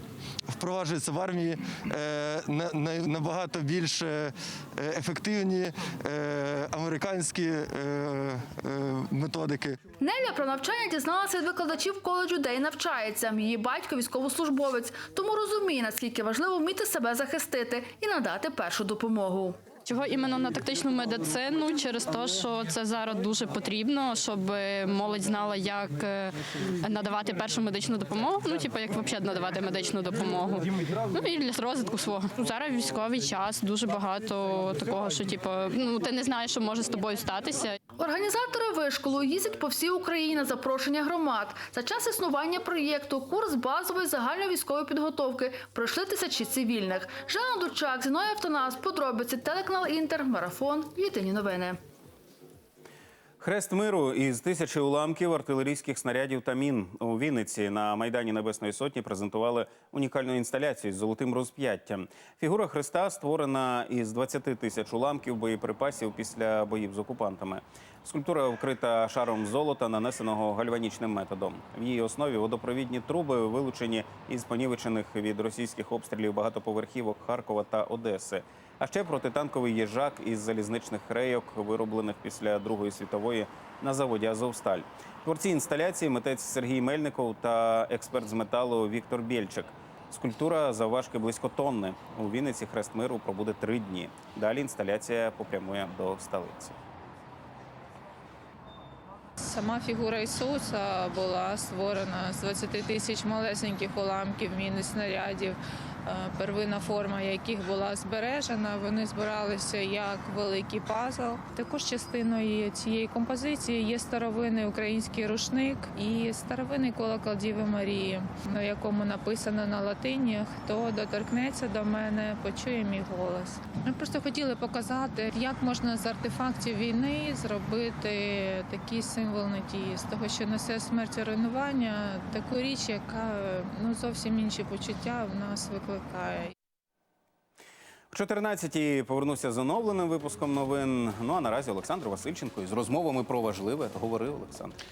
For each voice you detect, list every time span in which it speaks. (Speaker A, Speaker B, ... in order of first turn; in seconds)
Speaker A: 0.6-9.8
Speaker B: 10.0-19.6, 38.0-51.8
Speaker C: 19.9-37.8
Speaker D: 53.4-96.8, 138.1-144.8
Speaker E: 99.4-136.5